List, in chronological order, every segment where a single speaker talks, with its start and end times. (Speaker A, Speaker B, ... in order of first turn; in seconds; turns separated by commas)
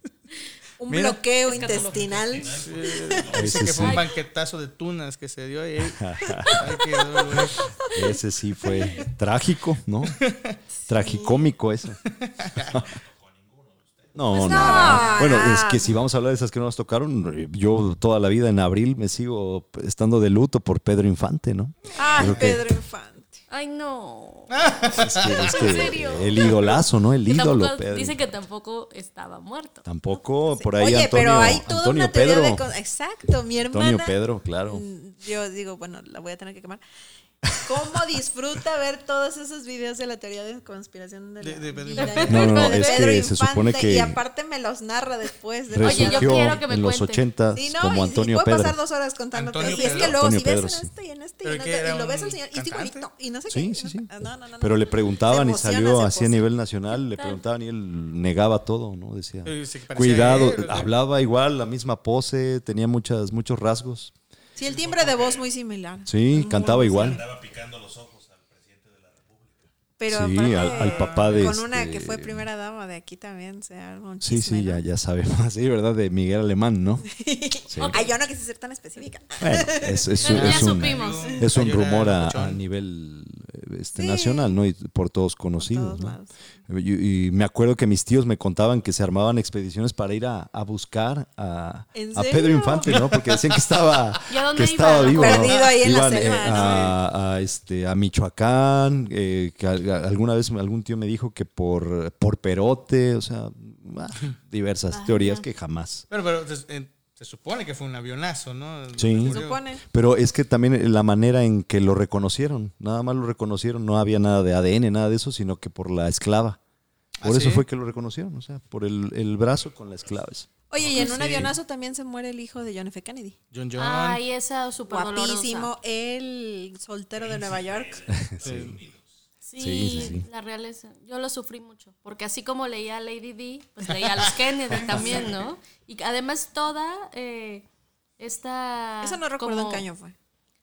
Speaker A: 0.8-3.3, Speaker B: 0.9-1.2, Speaker C: 1.4-2.1, Speaker D: 1.6-3.7, Speaker B: 2.6-7.6, Speaker E: 3.3-4.1, Speaker C: 3.8-4.1, Speaker E: 6.0-6.7, Speaker E: 7.9-10.2, Speaker B: 10.1-10.6, Speaker A: 10.8-11.5, Speaker E: 10.9-12.0, Speaker B: 12.2-12.8, Speaker D: 12.7-15.2, Speaker E: 14.1-22.8, Speaker A: 14.3-15.9, Speaker B: 14.7-15.0, Speaker A: 21.9-23.4, Speaker C: 23.5-24.7, Speaker B: 24.5-25.7, Speaker E: 24.9-28.3, Speaker C: 25.4-26.7, Speaker C: 27.3-29.9, Speaker E: 29.9-32.6, Speaker A: 30.5-34.1, Speaker E: 33.7-34.9, Speaker A: 34.7-36.8, Speaker A: 37.5-46.6, Speaker B: 41.4-42.6, Speaker C: 42.0-43.2, Speaker E: 42.3-44.2, Speaker E: 45.7-48.8, Speaker C: 45.8-47.2, Speaker A: 47.5-56.5, Speaker B: 49.3-50.2, Speaker E: 49.6-50.9, Speaker B: 51.4-53.1, Speaker E: 53.5-64.1, Speaker C: 56.9-57.4, Speaker B: 59.5-60.9, Speaker A: 64.6-67.3, Speaker D: 64.6-65.5, Speaker E: 66.1-67.2, Speaker D: 66.5-69.7, Speaker A: 70.0-74.8, Speaker E: 70.1-72.5, Speaker B: 70.4-71.5, Speaker E: 74.2-77.1, Speaker A: 77.1-80.1, Speaker E: 77.7-78.1, Speaker C: 77.8-78.0, Speaker E: 79.4-86.2, Speaker B: 80.1-82.6, Speaker C: 80.2-81.4, Speaker A: 84.0-84.6, Speaker A: 85.6-86.4, Speaker E: 86.7-106.0, Speaker A: 91.9-93.0, Speaker B: 92.9-93.1, Speaker C: 94.3-95.7, Speaker A: 95.2-96.9, Speaker B: 96.3-97.0, Speaker C: 104.9-105.5, Speaker B: 106.1-109.6, Speaker E: 109.0-109.4, Speaker A: 109.2-109.8, Speaker E: 109.9-116.6, Speaker B: 117.2-117.6, Speaker E: 117.2-121.5, Speaker D: 119.6-120.2, Speaker A: 120.7-123.4, Speaker B: 120.8-121.5, Speaker B: 123.5-124.2, Speaker C: 123.8-125.7, Speaker A: 124.9-128.1, Speaker D: 127.2-129.2, Speaker E: 128.1-128.8, Speaker B: 128.4-128.8, Speaker C: 129.4-137.7, Speaker E: 129.6-130.3, Speaker C: 138.2-139.9, Speaker A: 139.0-140.1